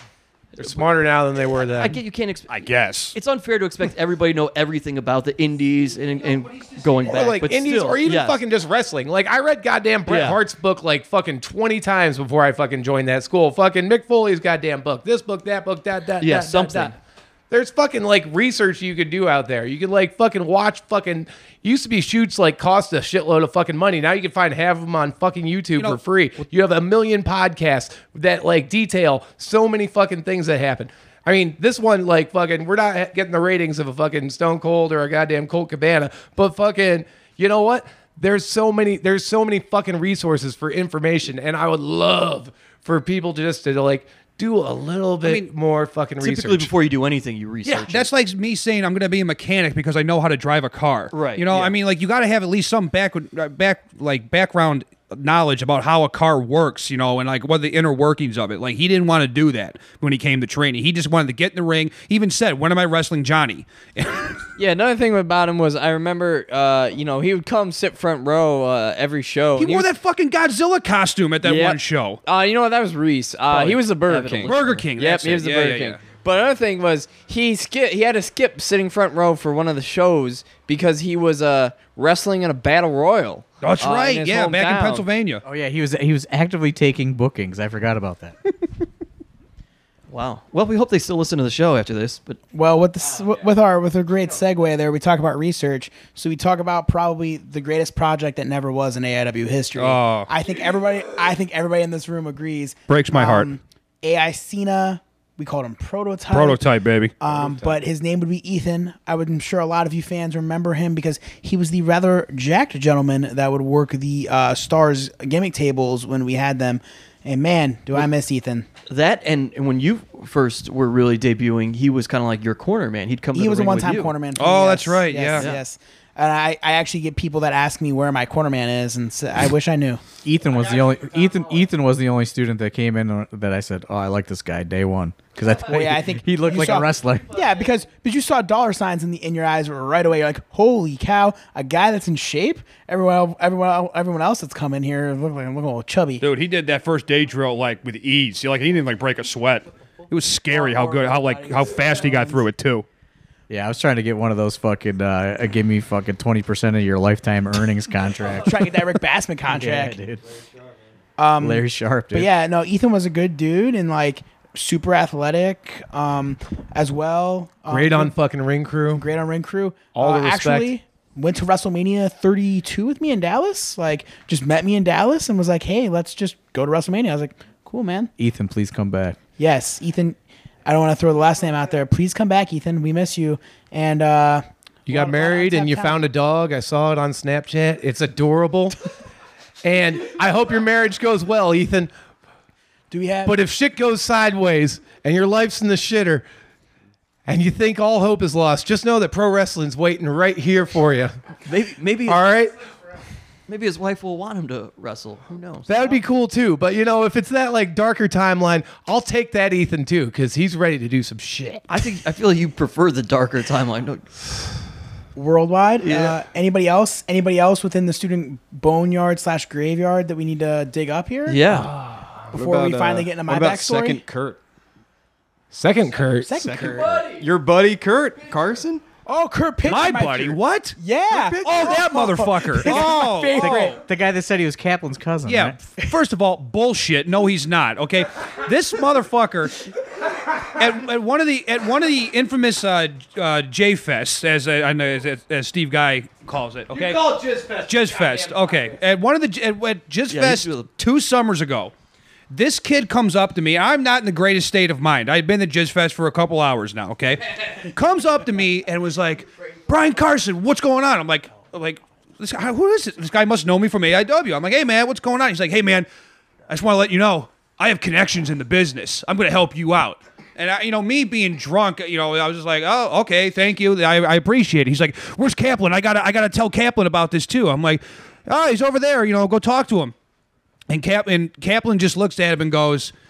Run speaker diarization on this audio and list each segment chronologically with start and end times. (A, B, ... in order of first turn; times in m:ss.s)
0:00.6-0:02.0 A
0:01.7-0:02.5 B
0:02.5-0:03.1 C
0:03.1-0:08.4 B
0:07.0-0:17.0 A
0:10.0-0:10.4 B
0:16.2-0:16.9 B
0:17.5-0:46.7 A
0:25.8-0:26.0 C
0:45.2-0:45.5 C
0:46.2-0:48.1 B
0:47.7-1:04.4 C
0:51.1-0:51.7 B
1:04.6-1:09.9 D
1:09.6-1:12.2 C
1:11.4-1:25.0 D
1:13.5-1:14.8 B
1:14.4-1:16.0 C
1:23.6-1:25.4 C
1:25.4-1:28.4 E
1:30.1-1:32.4 B
1:32.5-1:46.6 F
1:39.8-1:40.3 C
1:42.9-1:43.5 C
1:46.3-1:47.1 C
1:47.2-1:58.6 F
1:58.9-2:04.1 B
2:03.3-2:10.0 F
2:04.4-2:05.5 C
2:10.2-2:17.4 E
2:15.6-2:26.2 F
2:26.2-2:32.8 C
2:30.5-2:32.4 F
2:33.5-2:38.7 E
2:38.4-2:40.0 F
2:39.4-2:40.2 E
2:41.2-2:48.1 F
2:41.4-2:42.3 E
2:47.7-2:49.0 A
2:48.9-2:58.1 F
2:49.9-2:50.7 A
2:58.2-2:59.2 E
2:59.4-3:06.0 F
3:04.9-3:08.8 A
3:09.6-3:11.9 A
3:12.9-3:13.4 F
3:13.2-3:16.2 A
3:17.3-3:21.1 A
3:21.5-3:22.2 B
3:22.1-3:22.6 A
3:23.5-3:26.0 B
3:25.7-3:31.6 A
3:31.7-3:34.1 B
3:35.1-3:41.4 F
3:35.8-3:36.2 B
3:41.3-3:41.7 B
3:42.3-3:44.0 F
3:42.3-3:44.4 G
3:45.5-3:46.7 A
3:46.2-3:46.9 F
3:46.4-3:48.8 G
3:46.6-3:47.3 D
3:49.0-3:53.8 F
3:49.6-3:50.8 C
3:51.1-3:51.9 G
3:51.4-3:53.8 C
3:53.4-3:55.6 E
3:55.3-3:59.6 C
4:00.5-4:11.7 C
4:07.1-4:07.5 D
4:08.0-4:08.4 D
4:10.1-4:10.7 B
4:12.3-4:25.9 C
4:26.5-4:39.9 C
4:40.7-4:42.9 C